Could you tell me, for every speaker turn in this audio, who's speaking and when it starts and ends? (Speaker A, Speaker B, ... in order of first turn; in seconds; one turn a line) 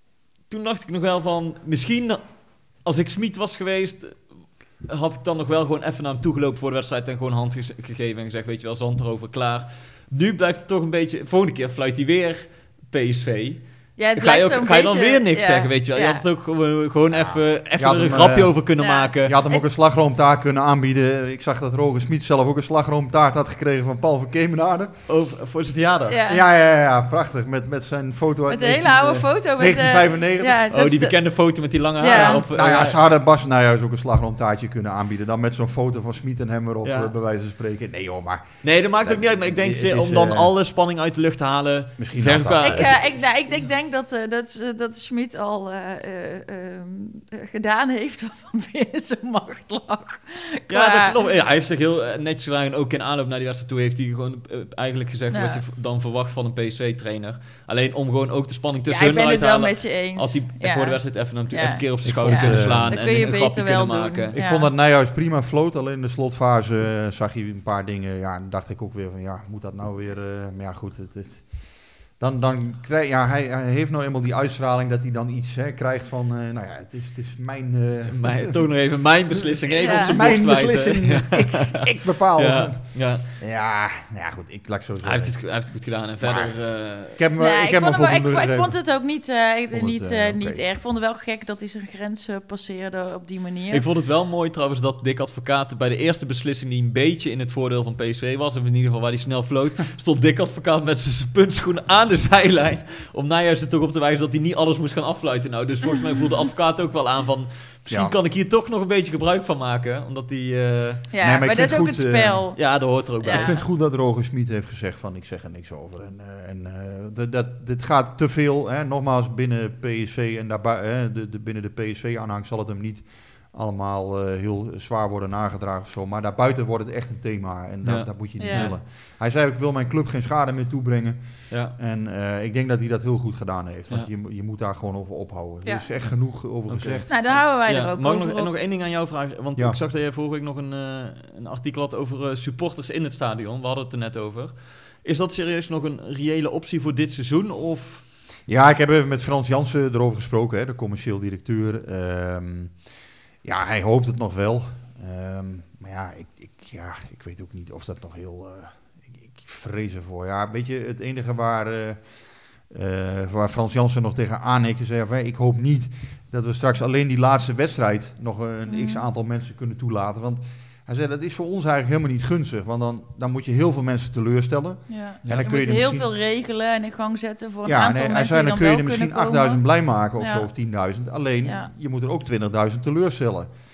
Speaker A: 0.5-19.4
Speaker B: 14.0-16.2
Speaker C: 17.1-24.9
Speaker B: 18.8-19.7
Speaker A: 25.1-26.2
Speaker B: 26.1-26.4
Speaker C: 26.3-30.6
Speaker B: 28.5-32.4
Speaker A: 30.7-33.0
Speaker C: 32.0-40.5
Speaker A: 36.8-37.1
Speaker A: 38.6-43.2
Speaker C: 42.0-43.2
Speaker B: 42.6-51.2
Speaker A: 50.7-64.3
Speaker B: 55.3-55.6
Speaker B: 58.9-64.7
Speaker C: 62.0-63.0
Speaker C: 64.3-78.6
Speaker A: 78.1-83.4
Speaker C: 79.4-85.6
Speaker B: 79.8-80.2
Speaker A: 85.0-87.2
Speaker C: 86.2-88.8
Speaker B: 87.4-93.9
Speaker C: 89.7-90.6
Speaker A: 93.7-111.1
Speaker C: 107.9-108.1
Speaker B: 111.1-113.6
Speaker C: 111.2-112.6
Speaker A: 112.6-113.6
Speaker C: 113.3-137.4
Speaker A: 127.8-128.8
Speaker B: 128.4-128.7
Speaker A: 131.5-131.8
Speaker A: 136.7-148.1
Speaker B: 137.1-138.5
Speaker C: 148.5-152.8
Speaker C: 153.4-162.0
Speaker C: 162.7-176.1
Speaker B: 168.7-169.1
Speaker B: 174.9-179.6
Speaker C: 177.6-183.5
Speaker B: 180.2-180.5
Speaker B: 181.4-181.7